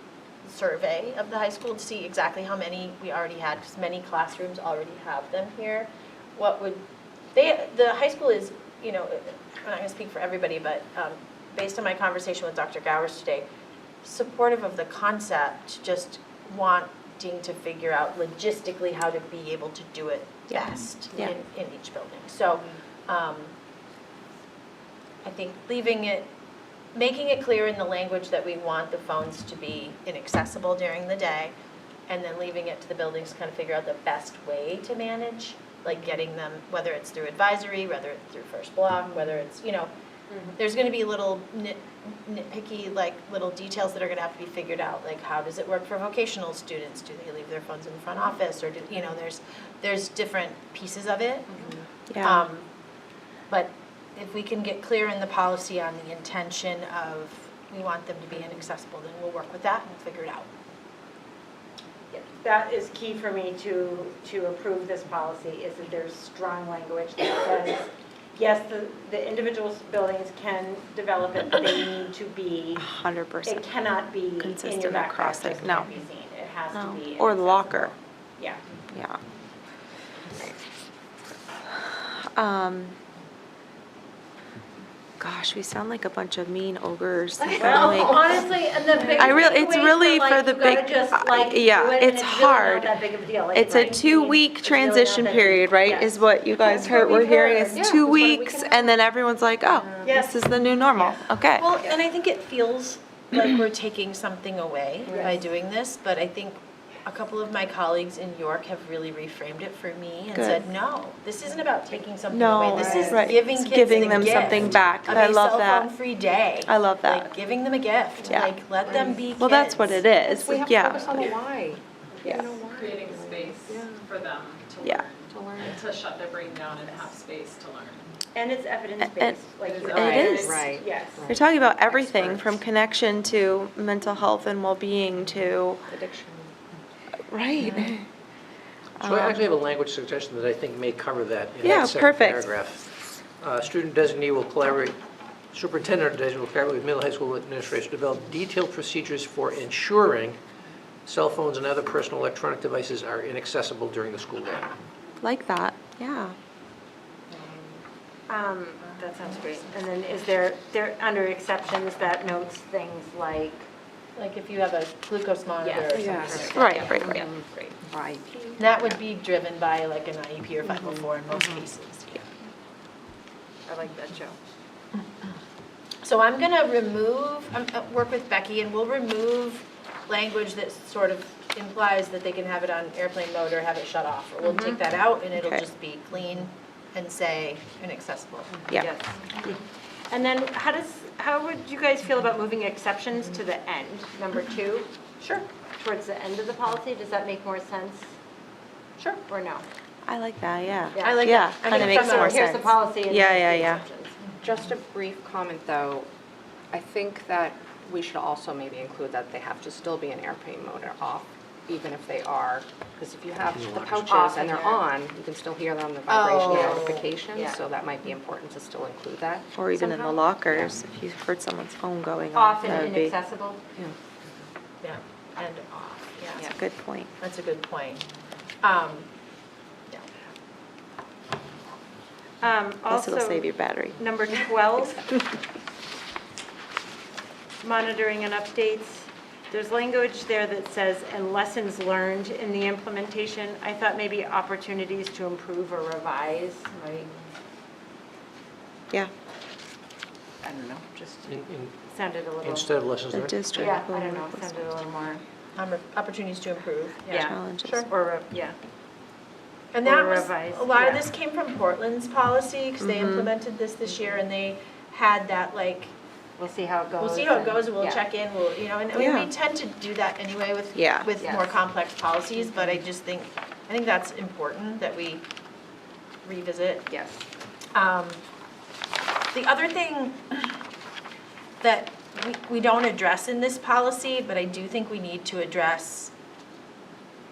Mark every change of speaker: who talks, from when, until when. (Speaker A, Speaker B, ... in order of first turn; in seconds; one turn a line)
Speaker A: 0.4-13.5
Speaker A: 14.0-23.5
Speaker B: 20.5-21.3
Speaker A: 25.2-26.3
Speaker A: 26.9-31.5
Speaker A: 32.1-39.9
Speaker A: 40.6-51.7
Speaker B: 52.1-52.5
Speaker A: 52.2-52.7
Speaker A: 53.5-60.5
Speaker C: 62.1-72.9
Speaker B: 72.8-73.7
Speaker C: 73.4-78.6
Speaker B: 74.4-75.9
Speaker B: 76.7-77.9
Speaker B: 78.9-79.2
Speaker B: 81.8-83.0
Speaker B: 85.2-88.5
Speaker D: 87.5-88.1
Speaker C: 87.5-98.9
Speaker D: 89.0-89.3
Speaker B: 89.2-93.0
Speaker B: 93.5-101.7
Speaker A: 97.0-97.6
Speaker C: 100.0-100.3
Speaker A: 101.1-120.0
Speaker C: 105.1-105.4
Speaker B: 110.3-110.7
Speaker B: 112.3-116.0
Speaker C: 112.8-113.2
Speaker B: 116.7-117.3
Speaker B: 118.3-118.6
Speaker D: 118.8-119.2
Speaker B: 119.3-121.3
Speaker D: 120.2-124.0
Speaker C: 122.2-122.5
Speaker E: 122.5-128.0
Speaker D: 125.3-125.8
Speaker C: 128.3-131.3
Speaker B: 129.0-129.3
Speaker E: 129.6-130.7
Speaker D: 129.9-132.5
Speaker B: 129.9-130.6
Speaker B: 131.3-135.8
Speaker D: 135.9-136.5
Speaker B: 137.3-138.1
Speaker B: 139.0-139.4
Speaker F: 139.0-142.8
Speaker B: 141.6-142.5
Speaker F: 143.4-144.9
Speaker F: 145.5-150.4
Speaker F: 151.1-154.7
Speaker B: 155.2-156.3
Speaker C: 158.3-163.7
Speaker A: 164.2-166.9
Speaker C: 165.6-167.3
Speaker B: 165.9-167.2
Speaker D: 166.0-169.0
Speaker A: 168.6-172.3
Speaker C: 173.7-174.3
Speaker A: 176.0-188.6
Speaker C: 184.4-184.8
Speaker B: 185.4-185.6
Speaker C: 188.7-194.9
Speaker C: 195.8-198.1
Speaker C: 199.2-199.6
Speaker B: 200.1-203.8
Speaker C: 200.9-204.2
Speaker A: 201.0-202.4
Speaker D: 204.4-206.1
Speaker D: 206.7-219.5
Speaker F: 213.5-214.2
Speaker C: 214.1-214.8
Speaker A: 216.1-217.0
Speaker C: 216.5-217.6
Speaker B: 219.5-223.1
Speaker C: 219.7-220.2
Speaker C: 222.3-223.6
Speaker A: 224.8-226.6
Speaker B: 226.4-227.1
Speaker A: 227.2-228.0
Speaker A: 228.6-229.1
Speaker C: 232.4-235.2
Speaker B: 232.9-234.0
Speaker C: 237.6-247.1
Speaker C: 250.4-251.3
Speaker F: 251.2-251.7
Speaker C: 251.8-252.8
Speaker F: 252.4-253.5
Speaker B: 253.1-254.5
Speaker C: 253.5-255.2
Speaker A: 255.5-257.8
Speaker C: 257.1-258.6
Speaker B: 257.1-257.9
Speaker A: 259.7-265.9
Speaker C: 259.8-261.1
Speaker B: 262.8-263.3
Speaker C: 266.4-267.9
Speaker A: 267.0-275.2
Speaker B: 268.9-269.3
Speaker B: 270.7-271.1
Speaker D: 271.2-271.5
Speaker A: 276.2-276.9
Speaker D: 276.9-277.2
Speaker A: 277.7-278.2
Speaker A: 279.3-280.6
Speaker A: 281.6-286.1